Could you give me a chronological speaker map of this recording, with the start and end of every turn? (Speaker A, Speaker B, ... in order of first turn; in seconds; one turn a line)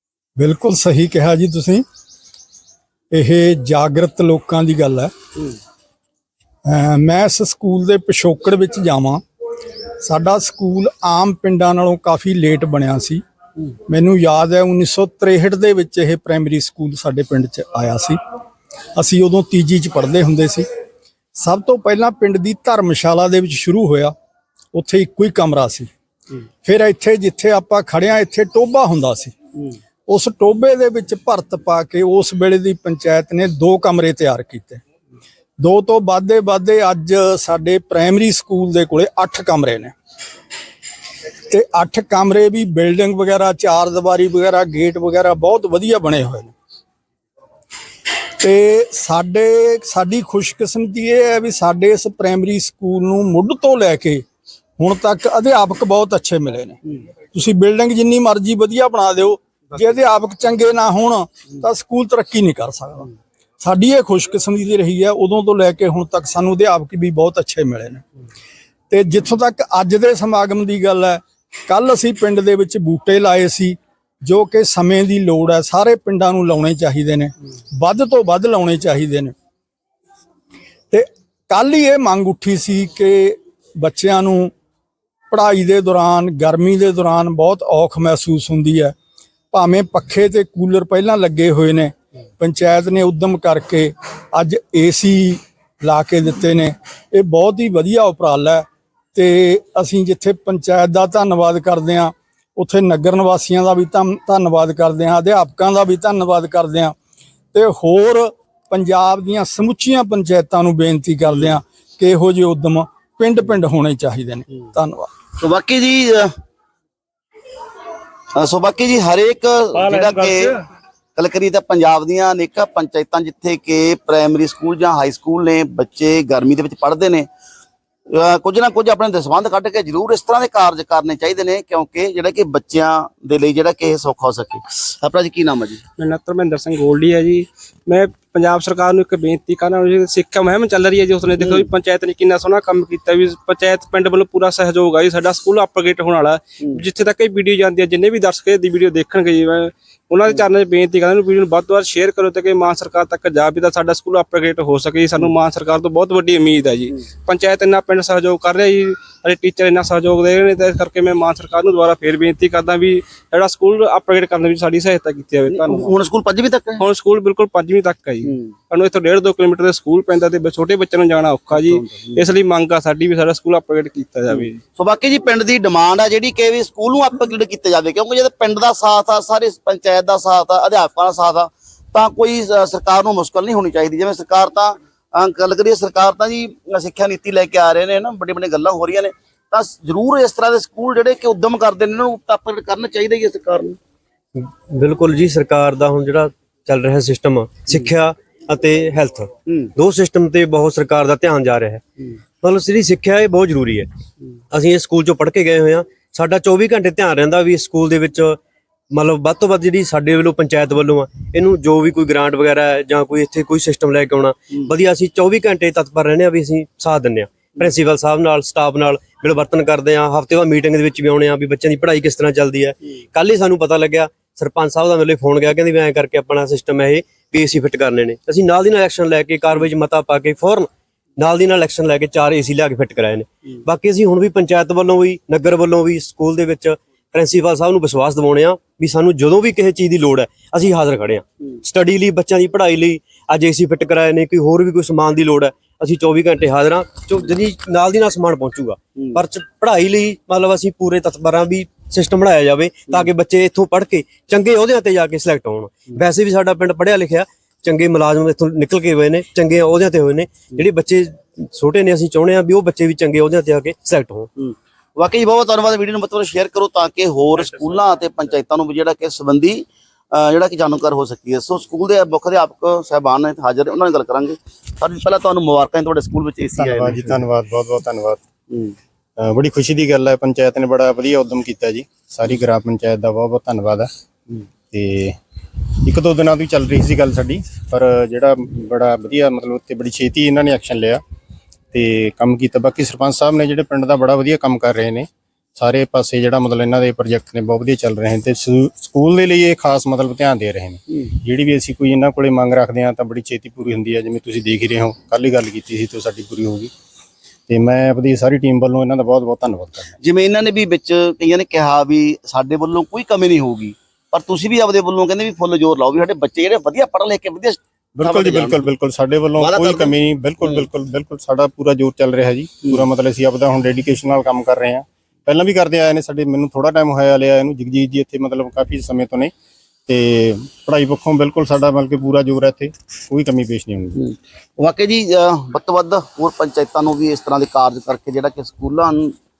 Speaker A: 0.4-1.8
Speaker A: 3.1-5.1
Speaker A: 6.7-9.2
Speaker A: 10.0-18.2
Speaker A: 18.9-20.7
Speaker A: 21.3-24.1
Speaker A: 24.7-25.9
Speaker A: 26.6-29.3
Speaker A: 30.1-34.8
Speaker A: 35.6-39.9
Speaker A: 41.5-46.5
Speaker A: 48.4-54.2
Speaker A: 54.8-56.8
Speaker A: 57.3-63.1
Speaker A: 63.6-68.0
Speaker A: 68.9-79.3
Speaker A: 80.9-84.5
Speaker A: 85.3-88.9
Speaker A: 89.5-106.9
Speaker A: 107.5-115.1
Speaker B: 115.4-116.3
Speaker B: 118.3-120.5
Speaker C: 119.7-120.5
Speaker B: 121.2-127.3
Speaker B: 128.1-135.8
Speaker D: 136.0-165.9
Speaker B: 141.4-141.7
Speaker B: 165.5-166.8
Speaker D: 166.8-174.6
Speaker B: 168.2-168.5
Speaker B: 171.5-172.2
Speaker B: 174.4-193.8
Speaker E: 194.7-201.8
Speaker E: 202.4-203.9
Speaker E: 204.5-208.4
Speaker E: 208.9-264.3
Speaker B: 264.4-277.2
Speaker C: 276.6-278.2
Speaker C: 279.2-283.9
Speaker C: 284.7-285.2
Speaker C: 285.9-291.0
Speaker C: 291.7-306.7
Speaker C: 307.5-309.9
Speaker B: 310.0-318.6
Speaker C: 318.0-329.3
Speaker B: 319.4-320.7
Speaker C: 329.9-334.0
Speaker B: 333.9-339.1